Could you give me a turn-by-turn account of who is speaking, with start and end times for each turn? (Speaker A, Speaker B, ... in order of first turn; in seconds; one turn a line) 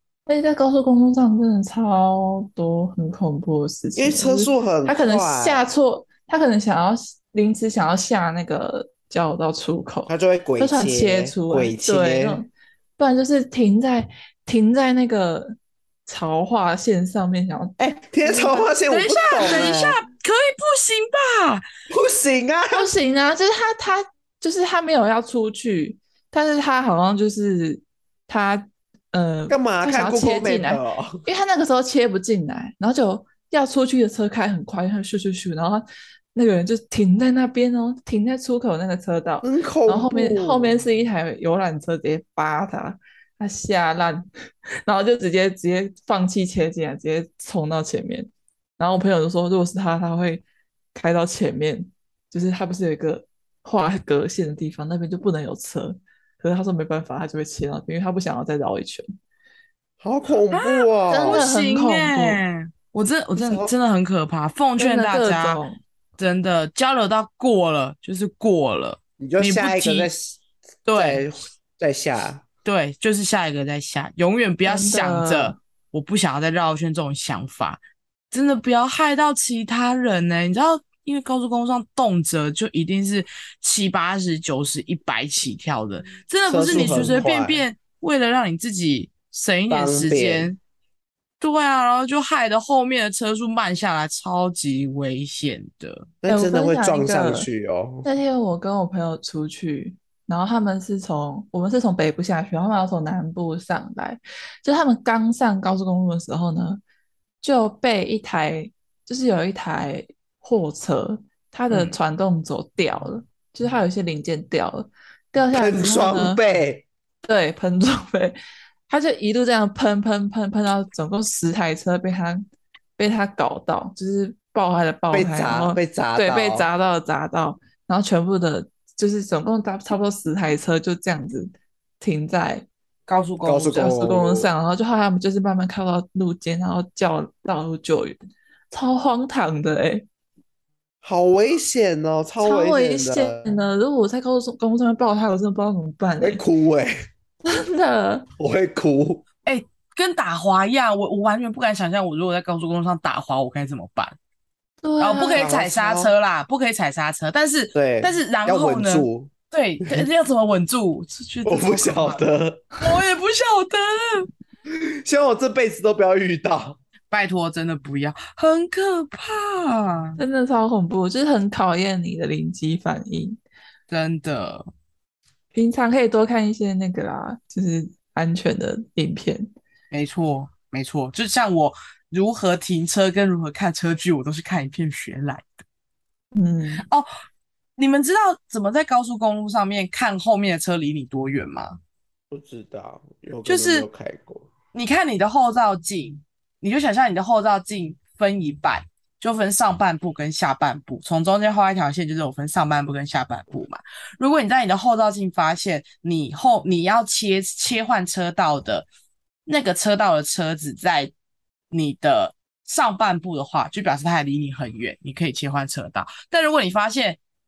Speaker A: 0.3-18.7
Speaker B: 4.0-5.7
Speaker B: 10.1-12.4
Speaker B: 17.8-20.0
Speaker C: 18.9-21.6
Speaker A: 19.4-19.7
Speaker B: 21.9-22.9
Speaker A: 22.7-44.3
Speaker B: 29.5-31.2
Speaker B: 39.4-40.8
Speaker A: 44.9-59.0
Speaker B: 60.0-61.4
Speaker C: 60.5-65.6
Speaker A: 61.1-62.4
Speaker B: 63.3-63.7
Speaker A: 64.8-65.8
Speaker C: 66.2-70.1
Speaker B: 69.2-72.4
Speaker C: 70.9-71.2
Speaker C: 72.6-90.6
Speaker A: 74.7-75.6
Speaker B: 86.5-87.6
Speaker B: 89.7-90.5
Speaker C: 91.4-96.1
Speaker B: 96.2-98.1
Speaker A: 96.3-97.5
Speaker A: 98.0-106.8
Speaker A: 107.4-116.4
Speaker C: 111.7-112.0
Speaker B: 115.5-116.8
Speaker A: 117.2-118.4
Speaker A: 118.9-132.7
Speaker B: 125.1-126.7
Speaker C: 133.1-133.8
Speaker B: 133.4-134.5
Speaker A: 133.7-138.2
Speaker A: 138.7-140.1
Speaker B: 141.0-143.6
Speaker A: 142.4-146.4
Speaker B: 146.2-146.9
Speaker A: 147.4-148.3
Speaker B: 148.4-149.2
Speaker C: 149.4-154.2
Speaker A: 154.8-155.5
Speaker C: 155.0-162.2
Speaker B: 155.3-156.1
Speaker B: 157.7-159.3
Speaker B: 161.4-162.7
Speaker C: 162.8-164.3
Speaker B: 164.7-166.8
Speaker C: 167.1-170.2
Speaker A: 170.2-173.4
Speaker C: 173.9-174.7
Speaker A: 175.5-179.5
Speaker C: 179.9-185.6
Speaker A: 186.3-186.8
Speaker C: 186.8-187.1
Speaker C: 187.8-191.8
Speaker B: 192.3-194.5
Speaker C: 193.4-193.8
Speaker C: 194.7-208.9
Speaker C: 209.4-211.1
Speaker C: 211.7-217.2